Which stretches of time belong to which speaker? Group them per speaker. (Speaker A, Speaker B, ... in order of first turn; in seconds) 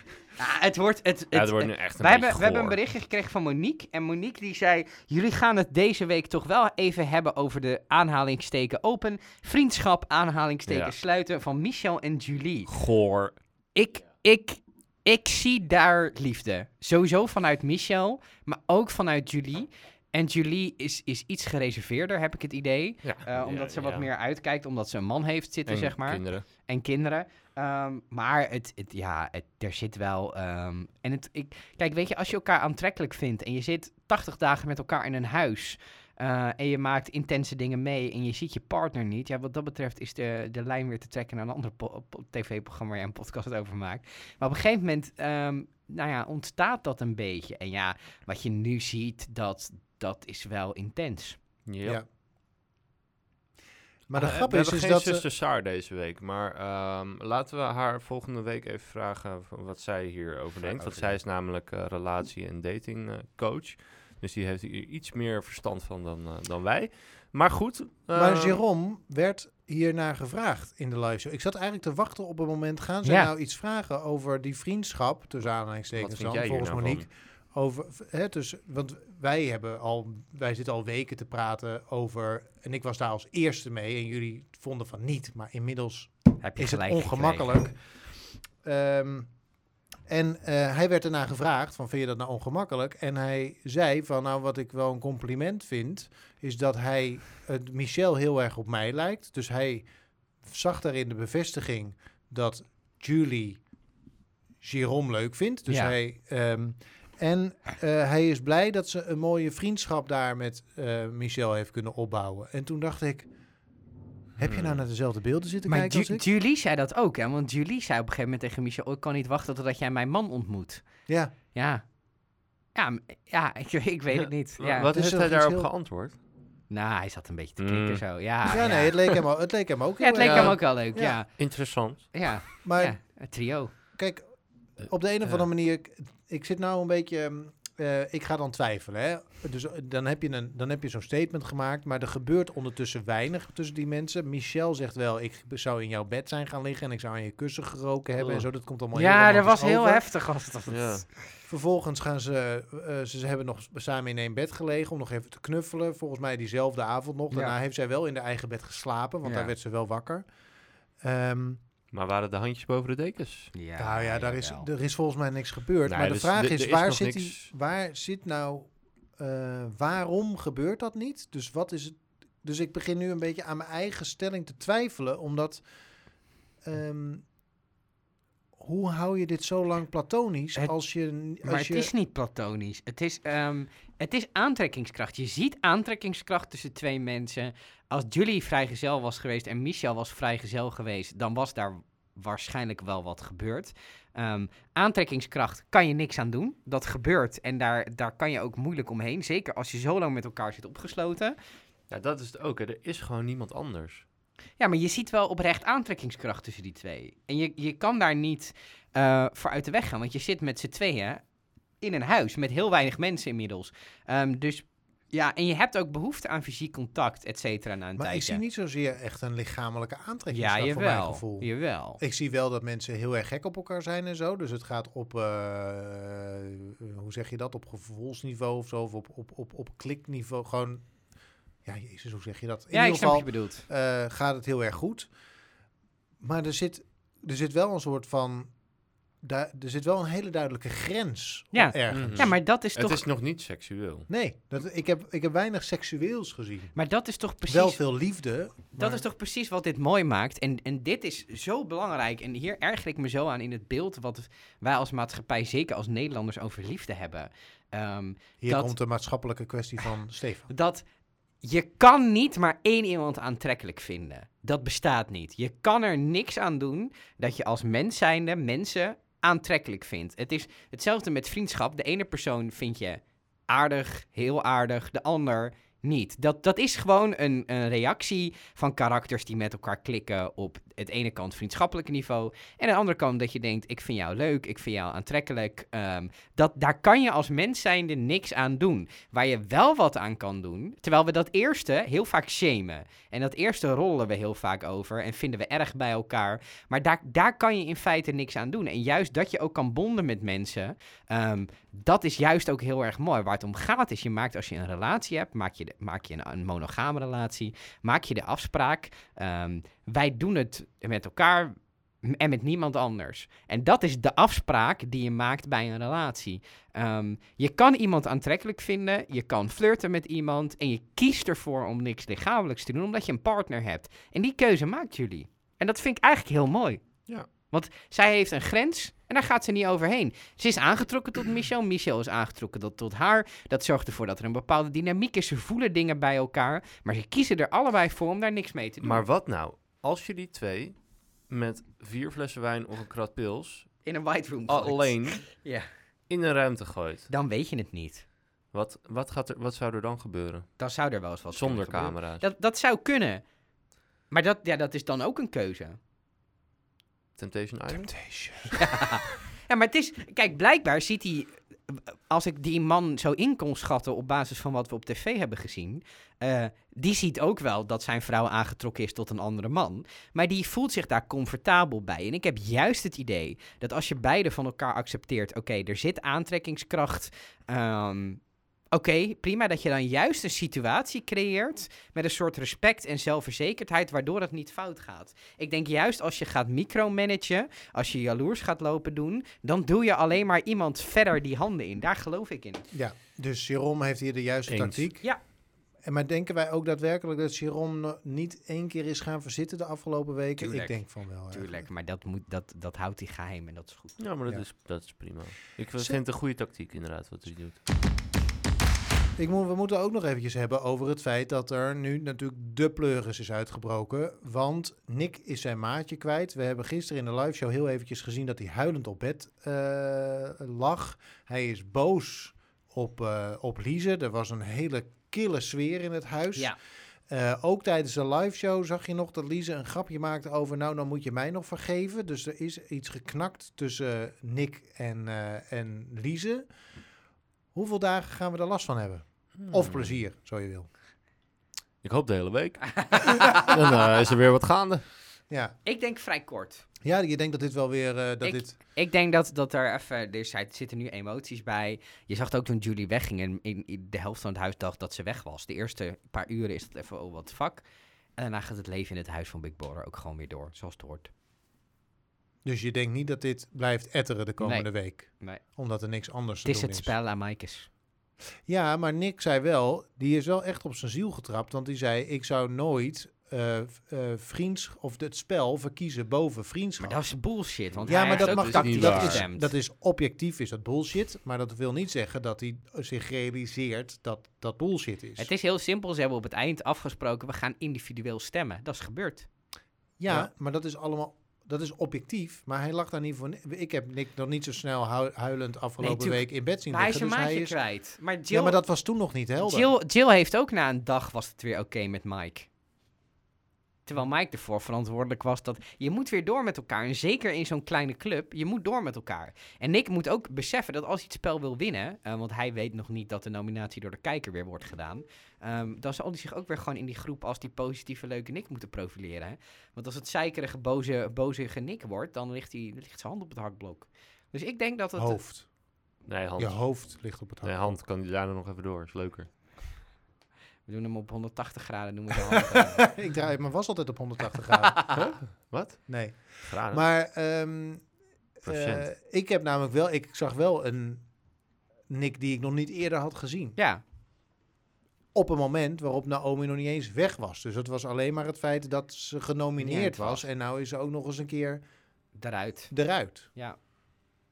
Speaker A: 0.4-12.7, 13.7-51.4, 60.6-61.2, 73.0-73.3, 86.4-87.5, 105.7-105.9, 115.7-124.9, 126.7-129.1, 130.0-133.7, 148.9-151.2, 157.3-157.6, 159.2-159.5, 163.5-164.7, 181.4-201.3, 204.6-218.4, 220.3-222.0, 232.7-233.7, 241.5-243.0, 246.7-248.2, 248.8-258.7, 260.5-260.9, 261.4-339.0, 343.8-345.7, 347.1-348.0, 350.6-353.3, 354.1-355.8, 358.6-392.6, 400.4-404.0, 442.7-443.4, 445.6-446.6, 448.2-457.6, 458.1-461.1, 464.4-465.4, 466.4-467.7, 476.8-479.5, 485.2-489.3, 495.8-498.6, 499.4-502.5, 503.9-525.2, 530.6-532.9, 543.6-543.8, 549.6-550.2, 552.1-553.6
Speaker B: 1.3-2.8, 10.7-10.9, 12.7-13.4, 23.0-24.1, 25.7-26.4, 51.6-52.0, 54.1-68.6, 75.9-77.1, 114.4-114.8, 124.2-126.2, 127.6-128.1, 130.2-132.5, 134.8-135.3, 148.2-148.5, 150.7-151.0, 161.9-163.5, 165.9-167.5, 201.9-204.0, 241.9-244.1, 338.8-343.8, 344.5-345.3, 346.1-347.1, 348.5-350.6, 351.3-352.2, 357.2-358.4, 394.5-394.9, 404.0-407.6, 439.4-440.0, 441.8-444.8, 477.7-479.2, 526.0-529.4, 534.9-536.8, 538.4-538.9
Speaker C: 54.1-55.2, 68.1-89.4, 90.1-99.9, 100.4-103.7, 104.6-113.3, 114.4-116.2, 121.1-121.3, 124.9-125.7, 128.5-131.2, 132.6-133.1, 133.9-150.0, 151.5-160.3, 161.0-161.6, 163.8-175.6, 176.6-177.2, 178.6-181.9, 218.0-235.2, 236.2-242.4, 244.1-246.8, 247.4-249.0, 258.4-260.5, 357.7-358.8, 392.7-401.6, 409.2-426.6, 427.1-436.5, 437.5-440.7, 445.3-445.5, 446.8-448.6, 462.4-466.9, 468.4-477.2, 477.8-485.3, 490.0-497.6, 498.3-499.7, 525.0-525.7, 526.4-527.8, 532.8-541.1, 541.9-543.6, 545.1-551.6, 552.7-553.3